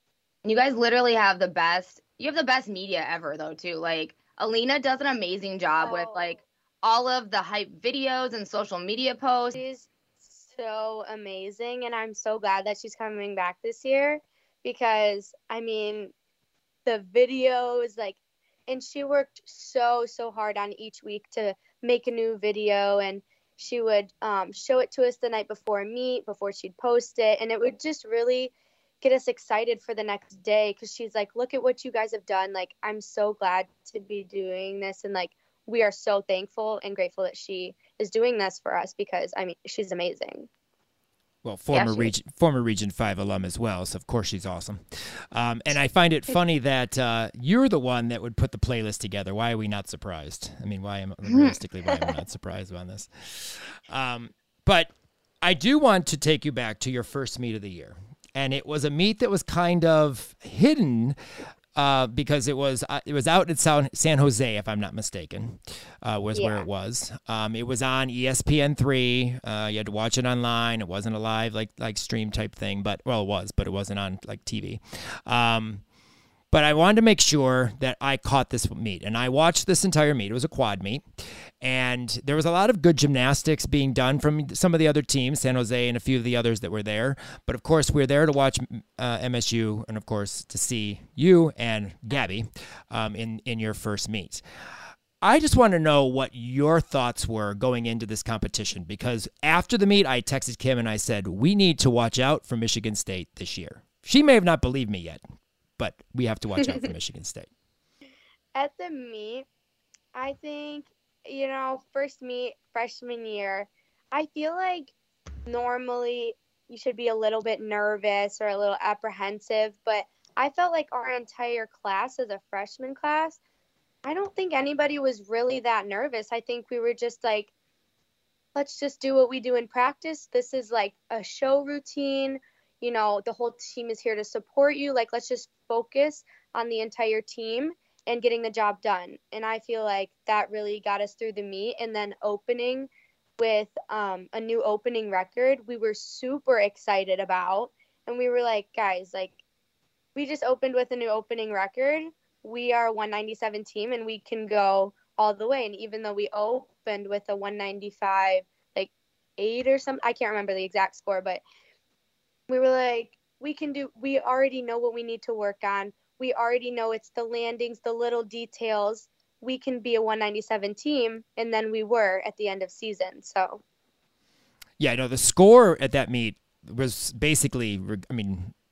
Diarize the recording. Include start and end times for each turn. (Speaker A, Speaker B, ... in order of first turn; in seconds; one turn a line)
Speaker A: 0.4-9.6
Speaker B: 5.8-6.2
Speaker B: 9.5-16.1
Speaker B: 16.9-40.5
Speaker C: 41.4-61.2
Speaker A: 41.7-42.0
Speaker A: 51.3-51.6
Speaker C: 61.7-75.8
Speaker B: 66.3-66.7
Speaker C: 76.5-81.0
Speaker C: 81.6-105.2
Speaker C: 105.8-107.5
Speaker B: 108.5-109.5
Speaker B: 110.1-114.9
Speaker B: 115.5-123.4
Speaker B: 124.0-127.5
Speaker B: 128.5-149.4
Speaker B: 150.1-161.4
Speaker B: 162.5-173.6
Speaker C: 174.8-178.5